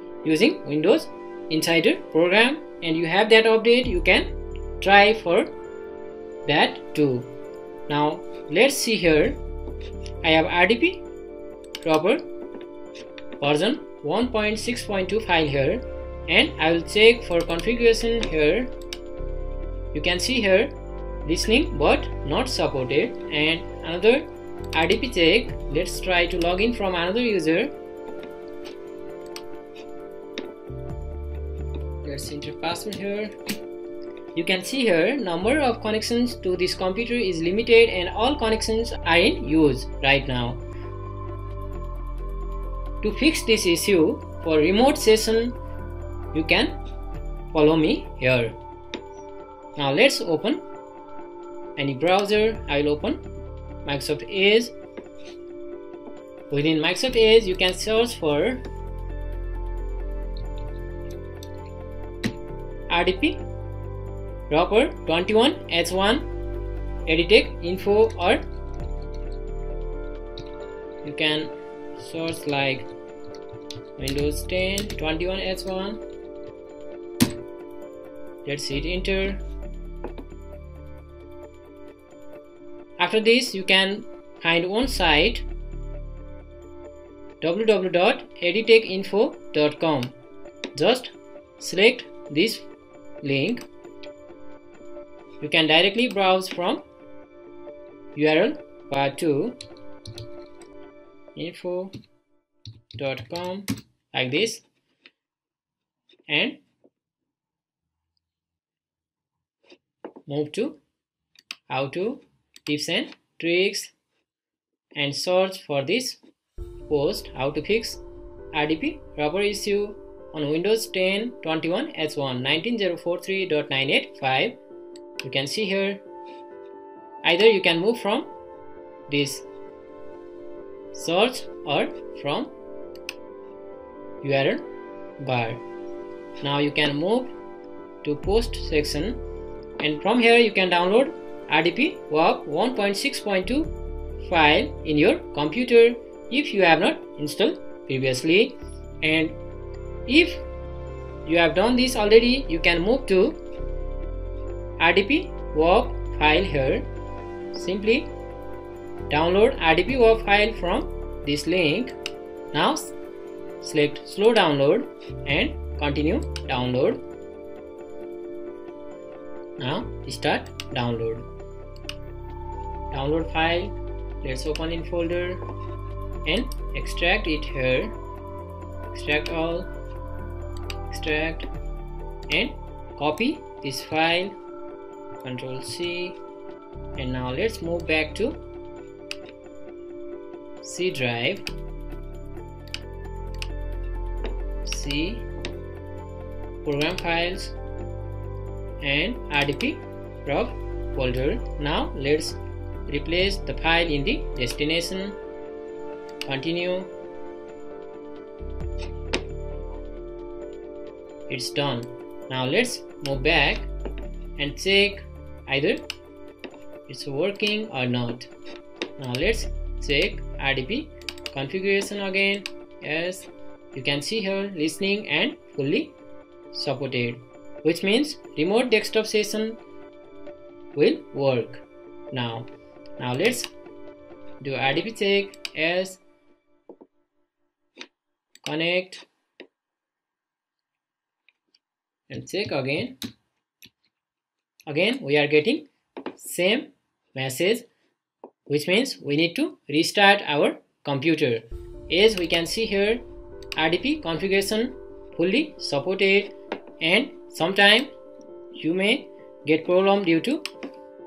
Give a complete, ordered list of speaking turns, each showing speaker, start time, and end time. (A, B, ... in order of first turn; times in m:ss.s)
0:00.2-0:05.5 A
0:06.4-0:07.3 A
0:07.9-0:09.4 A
0:10.2-0:11.0 A
0:11.8-0:12.2 A
0:13.4-0:18.7 A
0:19.9-0:27.7 A
0:32.0-0:33.4 A
0:34.3-0:40.6 A
0:43.0-0:45.6 A
0:46.3-0:46.8 A
0:47.5-0:48.6 A
0:49.8-0:50.6 A
0:51.8-0:53.2 A
0:53.8-0:54.7 A
0:56.5-0:58.6 A
1:02.9-1:03.4 A
1:04.5-1:06.3 A
1:07.0-1:08.4 A
1:11.0-1:12.9 A
1:14.0-1:16.0 A
1:18.4-1:19.4 A
1:23.0-1:25.4 A
1:27.4-1:30.1 A
1:30.7-1:32.7 A
1:33.2-1:33.6 A
1:35.4-1:36.8 A
1:38.1-1:39.6 A
1:41.3-1:41.9 A
1:43.0-1:44.6 A
1:46.3-1:46.6 A
1:50.2-1:50.8 A
1:51.7-1:53.9 A
1:54.9-1:56.2 A
1:56.9-1:58.0 A
1:58.5-2:04.6 A
2:05.2-2:06.0 A
2:07.2-2:08.3 A
2:09.1-2:09.4 A
2:10.9-2:12.5 A
2:14.2-2:14.6 A
2:15.2-2:15.6 A
2:16.4-2:17.3 A
2:18.0-2:19.2 A
2:19.8-2:29.4 A
2:30.1-2:30.4 A
2:31.2-2:33.4 A
2:34.8-2:36.9 A
2:37.5-2:38.1 A
2:39.1-2:41.9 A
2:42.5-2:42.9 A
2:43.6-2:47.0 A
2:49.6-2:51.3 A
2:52.9-2:55.4 A
2:56.2-2:58.0 A
2:58.8-2:59.7 A
3:00.9-3:01.5 A
3:02.3-3:04.3 A
3:05.2-3:06.2 A
3:07.0-3:08.4 A
3:10.6-3:11.5 A
3:14.6-3:15.3 A
3:16.6-3:17.6 A
3:18.8-3:25.2 A
3:26.2-3:26.9 A
3:31.3-3:33.7 A
3:34.4-3:35.8 A
3:36.9-3:38.3 A
3:39.0-3:46.0 A
3:46.5-3:49.6 A
3:50.7-3:52.5 A
3:53.0-3:53.5 A
3:54.4-3:56.0 A
3:58.4-3:59.1 A
4:02.1-4:03.0 A
4:04.7-4:07.7 A
4:08.5-4:13.0 A
4:13.6-4:17.9 A
4:18.5-4:20.4 A